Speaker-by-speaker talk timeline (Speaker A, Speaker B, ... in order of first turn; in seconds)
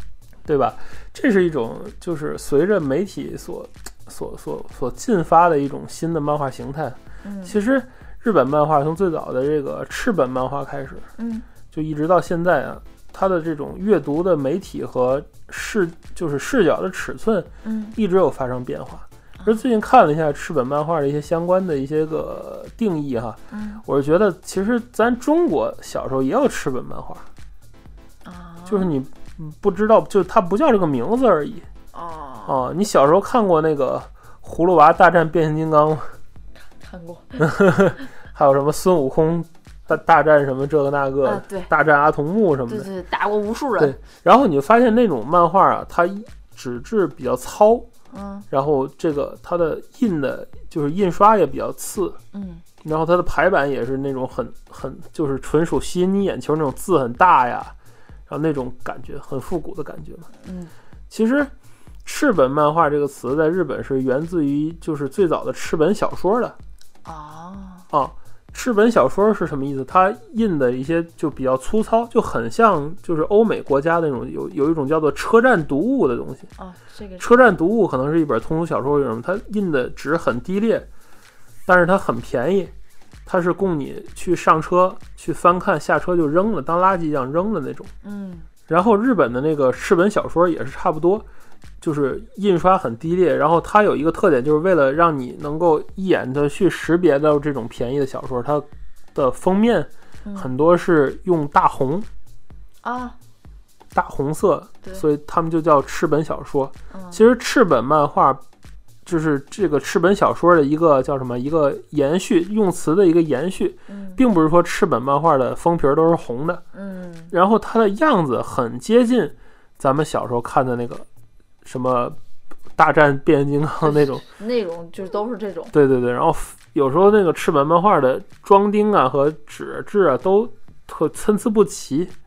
Speaker A: 0.5-11.1, 11.7-27.2, 28.7-31.6, 32.5-36.1, 37.4-42.9, 43.8-47.9, 48.5-52.2, 52.8-57.7, 58.3-60.3, 61.1-61.5, 62.0-66.5, 67.9-76.5, 77.2-80.9, 81.7-82.7, 83.2-87.9, 88.7-91.2, 91.8-102.1, 103.9-108.4, 109.0-116.6, 117.3-121.0, 121.6-122.2, 122.8-124.2, 125.7-132.1
Speaker B: 7.2-7.5, 11.2-11.5, 17.6-17.9, 23.5-23.8, 28.2-28.9, 31.9-32.6, 36.8-37.5, 41.2-41.7, 42.7-44.0, 48.1-48.5, 52.3-52.6, 60.4-60.7, 67.0-67.9, 76.6-77.5, 88.0-88.5, 100.2-100.5, 102.8-103.2, 106.9-107.2, 113.9-114.2, 116.7-117.3, 123.8-125.7